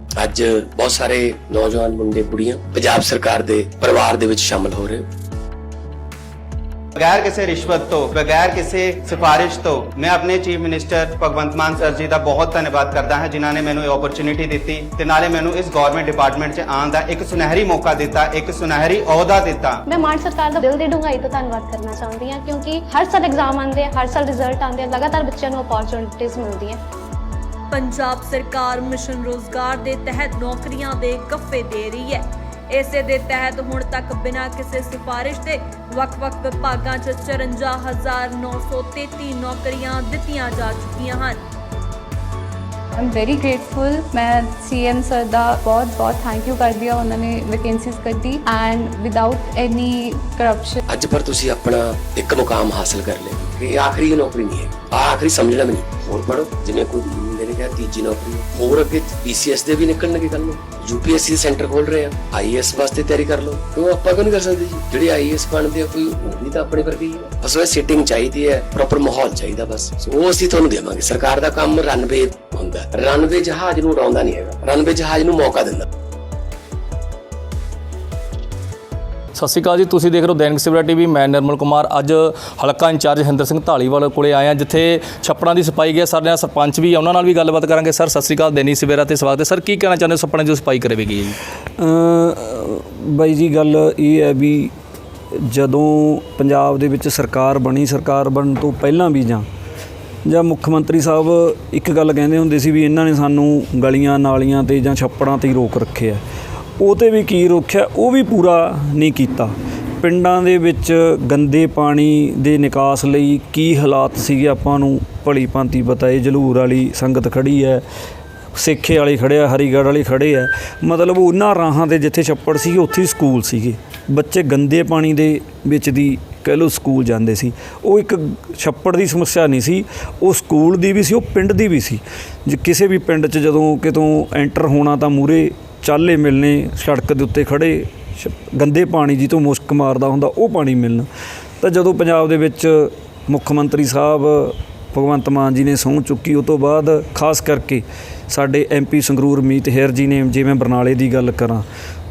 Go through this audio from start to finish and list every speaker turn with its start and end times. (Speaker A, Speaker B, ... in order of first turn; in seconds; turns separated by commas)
Speaker A: 0.2-5.1, Speaker B: 7.0-19.8, Speaker C: 19.9-26.8, Speaker D: 27.7-41.4, Speaker E: 43.0-50.8, Speaker A: 50.9-75.8, Speaker F: 79.3-91.3, Speaker G: 91.8-94.7, Speaker G: 95.3-99.5, Speaker G: 100.2-106.2, Speaker G: 106.8-117.8, Speaker G: 118.5-141.1, Speaker G: 141.6-151.6